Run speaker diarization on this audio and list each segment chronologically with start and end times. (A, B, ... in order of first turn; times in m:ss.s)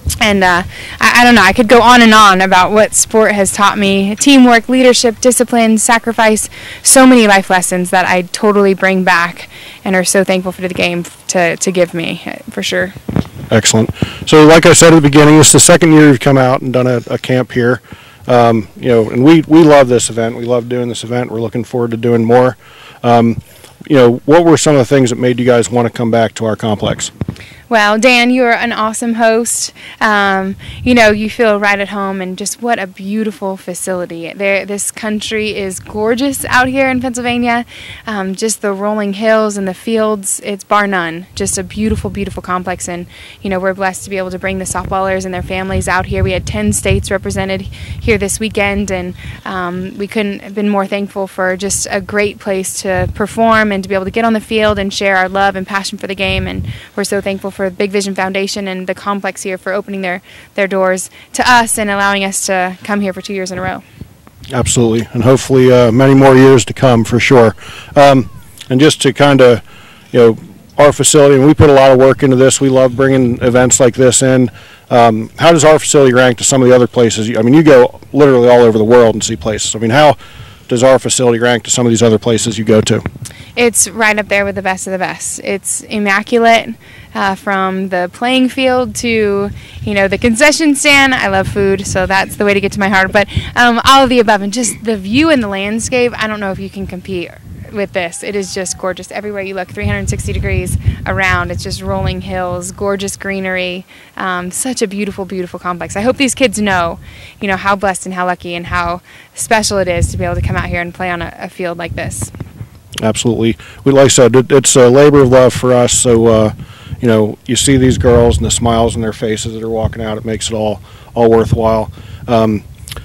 0:00.2-0:13.0 A
0:13.5-0:27.1 B
0:27.7-1:03.8 A
1:04.5-1:20.2 B
1:20.7-1:23.0 B
1:23.6-1:52.3 A
1:53.0-2:02.6 B